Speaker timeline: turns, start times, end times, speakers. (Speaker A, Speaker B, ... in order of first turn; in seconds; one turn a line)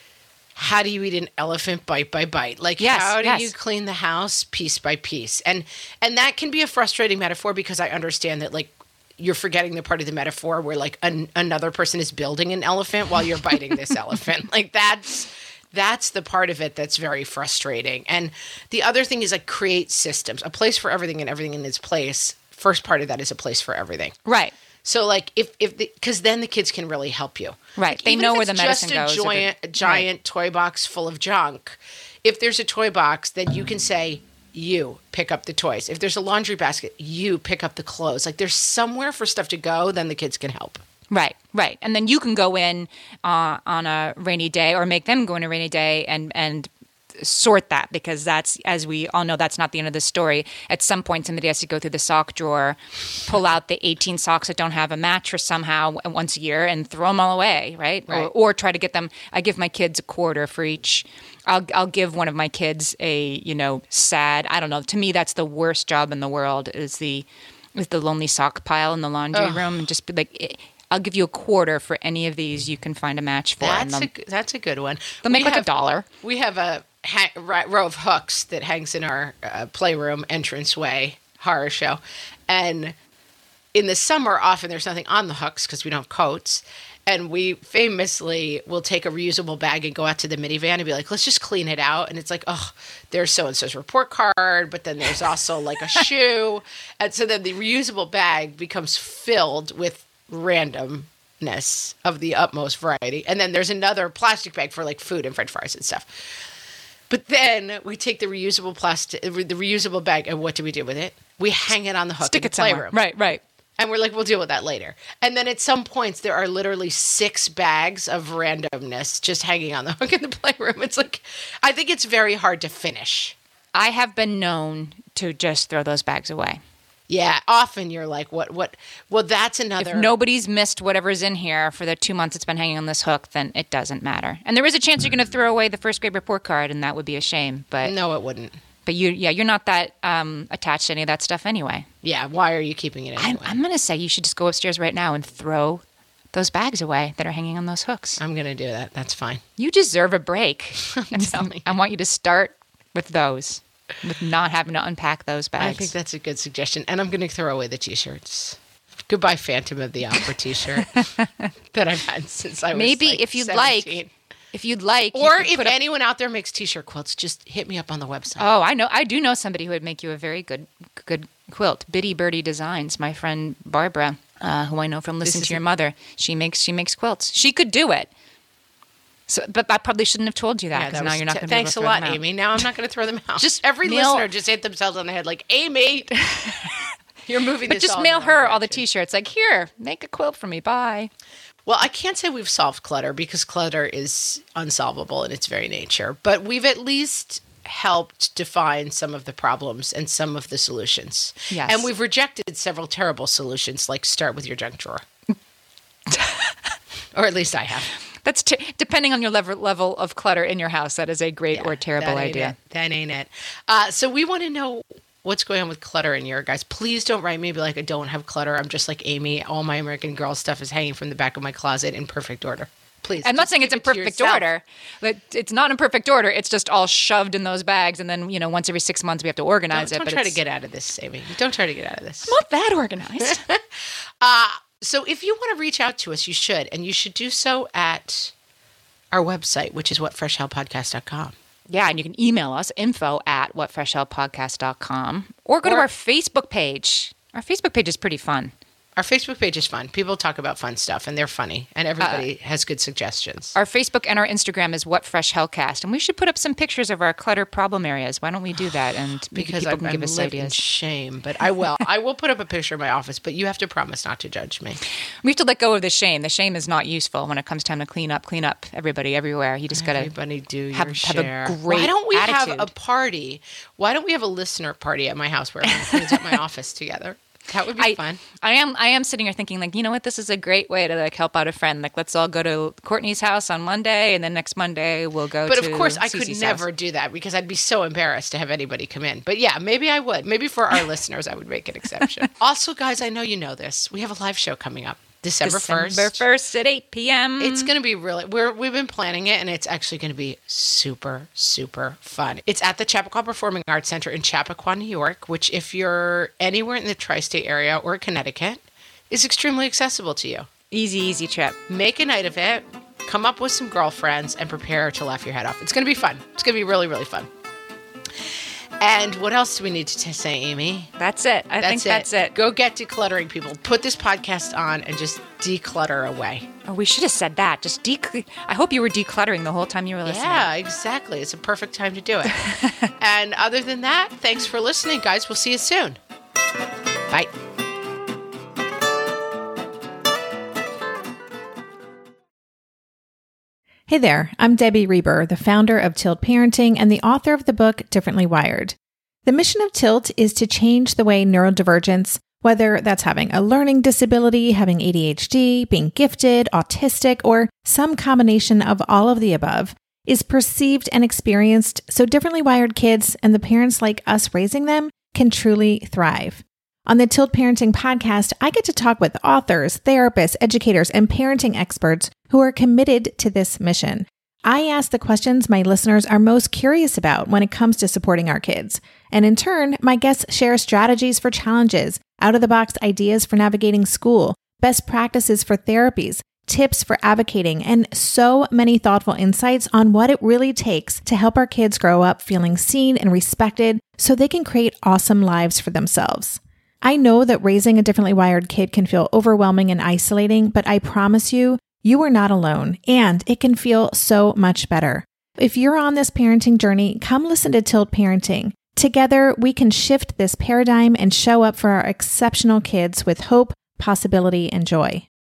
Speaker A: 0.6-24.1
Speaker B: 2.8-3.5
Speaker B: 24.2-24.5
Speaker A: 24.8-40.8
Speaker B: 27.8-30.1
Speaker B: 41.1-74.1
Speaker A: 69.3-69.7
Speaker A: 73.6-75.7
Speaker B: 75.2-76.0
Speaker A: 76.2-82.9
Speaker A: 83.7-106.2
Speaker A: 107.1-113.0
Speaker B: 112.2-113.4
Speaker A: 113.8-123.3
Speaker B: 123.7-126.6
Speaker A: 127.1-130.1
Speaker B: 129.8-137.9
Speaker A: 137.8-138.6
Speaker B: 138.8-141.9
Speaker A: 142.0-143.6
Speaker B: 143.2-148.2
Speaker A: 148.2-149.4
Speaker B: 149.6-155.9
Speaker A: 150.9-151.7
Speaker A: 155.6-161.1
Speaker B: 160.7-161.5
Speaker A: 161.7-164.1
Speaker B: 162.7-164.0
Speaker B: 164.5-165.8
Speaker A: 165.1-168.4
Speaker B: 168.4-178.1
Speaker A: 175.2-175.6
Speaker B: 179.3-182.2
Speaker A: 180.7-186.2
Speaker B: 183.4-184.2
Speaker B: 186.3-186.8
Speaker A: 187.2-188.8
Speaker B: 187.7-191.1
Speaker A: 191.7-205.0
Speaker B: 201.5-201.9
Speaker B: 206.1-206.7
Speaker A: 207.1-207.9
Speaker B: 208.2-212.5
Speaker A: 211.5-224.5
Speaker B: 223.2-230.4
Speaker A: 229.7-232.3
Speaker B: 232.2-233.4
Speaker A: 233.2-233.6
Speaker A: 234.2-238.3
Speaker A: 239.1-241.3
Speaker B: 241.7-248.5
Speaker A: 248.9-253.5
Speaker B: 252.0-252.2
Speaker B: 253.5-260.6
Speaker A: 259.3-264.8
Speaker B: 265.2-270.1
Speaker A: 269.7-278.2
Speaker B: 270.7-272.7
Speaker B: 275.6-276.4
Speaker B: 277.8-286.6
Speaker A: 285.5-296.2
Speaker B: 292.0-292.2
Speaker B: 295.4-297.7
Speaker A: 297.4-310.5
Speaker B: 310.7-311.6
Speaker A: 311.7-317.3
Speaker A: 318.8-320.9
Speaker B: 321.0-322.3
Speaker A: 321.6-326.5
Speaker B: 326.6-330.5
Speaker A: 330.0-336.0
Speaker B: 332.3-332.7
Speaker C: 343.9-415.0